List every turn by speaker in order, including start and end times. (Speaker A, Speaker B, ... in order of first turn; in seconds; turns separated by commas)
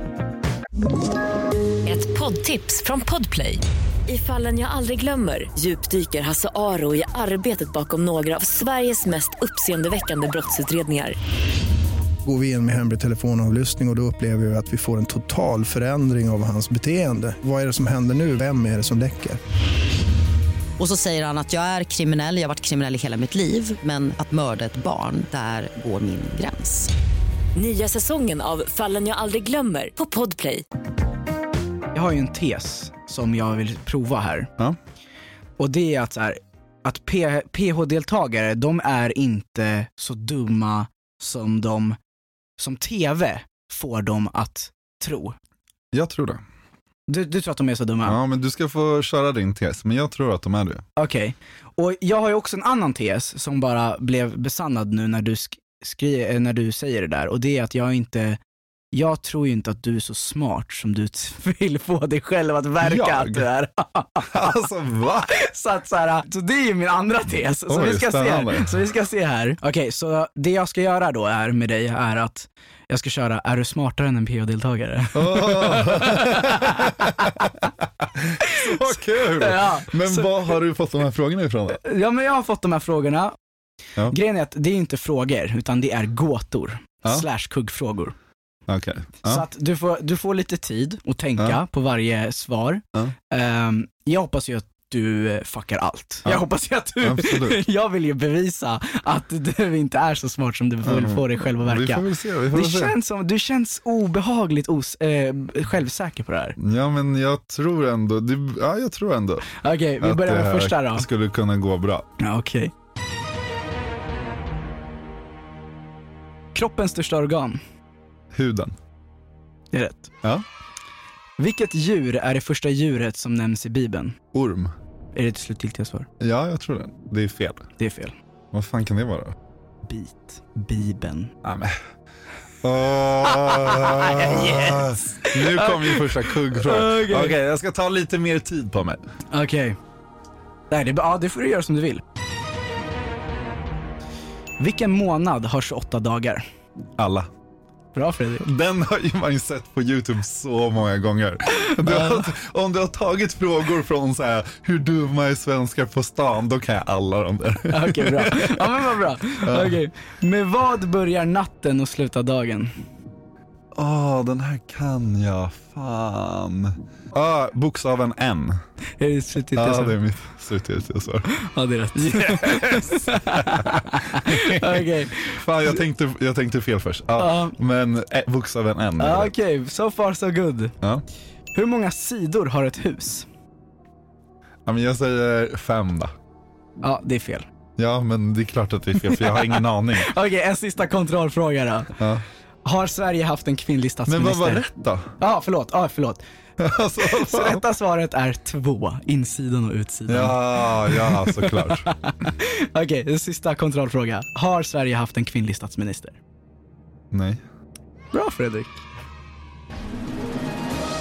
Speaker A: 1.9-11.2, Speaker B: 12.2-19.4, Speaker C: 20.8-26.9, Speaker A: 27.6-30.6, Speaker D: 31.9-34.5, Speaker D: 35.6-42.0, Speaker D: 42.6-45.4, Speaker E: 45.9-46.4, Speaker D: 47.1-48.2, Speaker E: 48.0-50.8, Speaker D: 51.0-58.4, Speaker D: 58.9-64.6, Speaker E: 62.8-63.5, Speaker E: 64.3-65.3, Speaker D: 65.3-77.6, Speaker E: 67.7-68.8, Speaker E: 75.1-77.5, Speaker E: 78.0-81.8, Speaker D: 78.4-80.3, Speaker D: 81.8-83.3, Speaker D: 84.1-88.2, Speaker E: 88.7-89.5, Speaker D: 89.2-106.6, Speaker E: 97.0-97.6, Speaker E: 100.8-103.0, Speaker E: 106.6-112.1, Speaker D: 109.6-111.1, Speaker D: 112.2-112.7, Speaker D: 116.5-117.6, Speaker E: 118.3-118.8, Speaker D: 119.7-120.1, Speaker D: 121.4-124.2, Speaker E: 124.3-124.7, Speaker D: 125.2-126.1, Speaker E: 126.2-127.7, Speaker D: 127.8-128.2, Speaker E: 128.5-129.4, Speaker D: 129.8-131.3, Speaker E: 131.4-131.8, Speaker E: 132.6-139.0, Speaker D: 133.3-137.4, Speaker D: 139.3-139.8, Speaker D: 140.7-142.0, Speaker D: 144.6-146.4, Speaker E: 147.0-147.3, Speaker D: 147.9-148.5, Speaker E: 148.4-158.8, Speaker D: 151.5-152.3, Speaker D: 157.7-162.7, Speaker E: 159.4-159.8, Speaker E: 163.8-168.6, Speaker D: 169.0-170.0, Speaker E: 169.6-171.3, Speaker D: 171.4-175.7, Speaker E: 172.0-179.3, Speaker D: 177.2-177.6, Speaker D: 179.0-180.7, Speaker D: 181.6-183.2, Speaker E: 184.7-186.1, Speaker D: 186.8-187.5, Speaker E: 187.8-190.1, Speaker D: 189.0-191.9, Speaker E: 192.0-192.2, Speaker D: 192.6-194.7, Speaker E: 194.1-195.1, Speaker D: 195.2-196.2, Speaker E: 196.6-197.6, Speaker D: 197.0-206.2, Speaker E: 200.1-201.9, Speaker E: 207.1-207.4, Speaker D: 208.1-208.8